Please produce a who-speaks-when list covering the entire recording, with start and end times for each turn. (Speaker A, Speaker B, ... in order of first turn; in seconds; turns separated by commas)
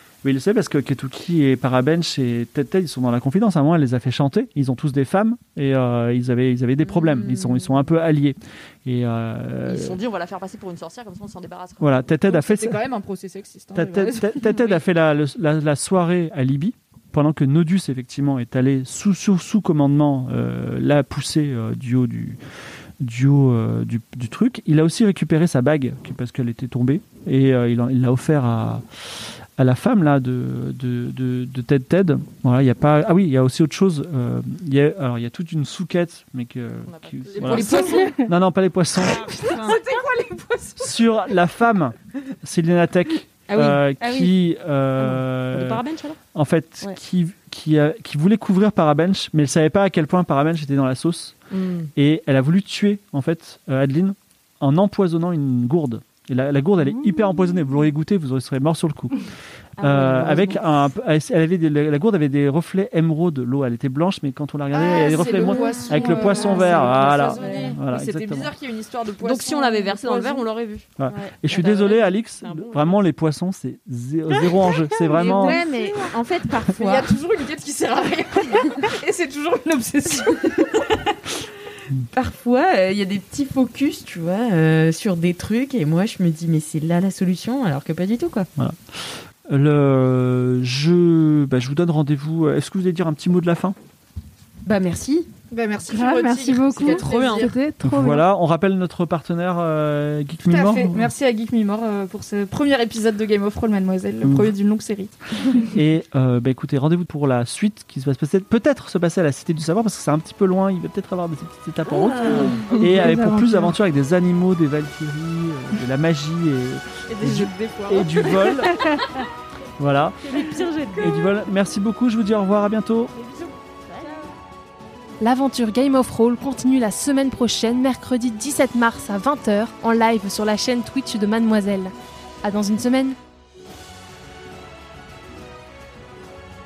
Speaker A: 0.2-10.0, Speaker B: 6.8-7.8, Speaker C: 9.7-11.9, Speaker A: 11.8-12.8, Speaker D: 12.3-14.8, Speaker A: 13.8-22.4, Speaker A: 23.0-28.8, Speaker A: 29.6-39.3, Speaker C: 36.9-38.0, Speaker D: 37.4-38.2, Speaker E: 37.6-38.3, Speaker B: 39.2-39.8, Speaker D: 39.3-41.0, Speaker A: 40.8-51.4, Speaker C: 43.5-44.3, Speaker C: 45.0-46.2, Speaker C: 51.5-51.9, Speaker A: 52.0-59.3, Speaker B: 59.8-60.9, Speaker A: 59.8-68.5, Speaker D: 64.7-70.5, Speaker B: 65.2-67.8, Speaker C: 69.2-70.9, Speaker A: 71.0-75.6, Speaker B: 71.1-71.3, Speaker C: 71.5-73.0, Speaker B: 75.0-77.1, Speaker D: 75.1-76.2, Speaker D: 76.7-80.9, Speaker B: 82.1-88.5, Speaker A: 88.6-93.8, Speaker B: 94.7-95.3, Speaker D: 95.5-97.5, Speaker E: 95.9-98.2, Speaker B: 96.8-97.5, Speaker A: 97.8-101.1, Speaker D: 100.5-105.7, Speaker A: 104.2-104.5, Speaker A: 105.7-118.8, Speaker C: 112.5-112.8, Speaker E: 112.8-113.7, Speaker D: 117.1-118.6, Speaker A: 119.8-120.5, Speaker C: 120.2-121.2, Speaker A: 121.0-123.1, Speaker C: 123.2-124.1, Speaker F: 125.2-131.9, Speaker F: 132.4-133.2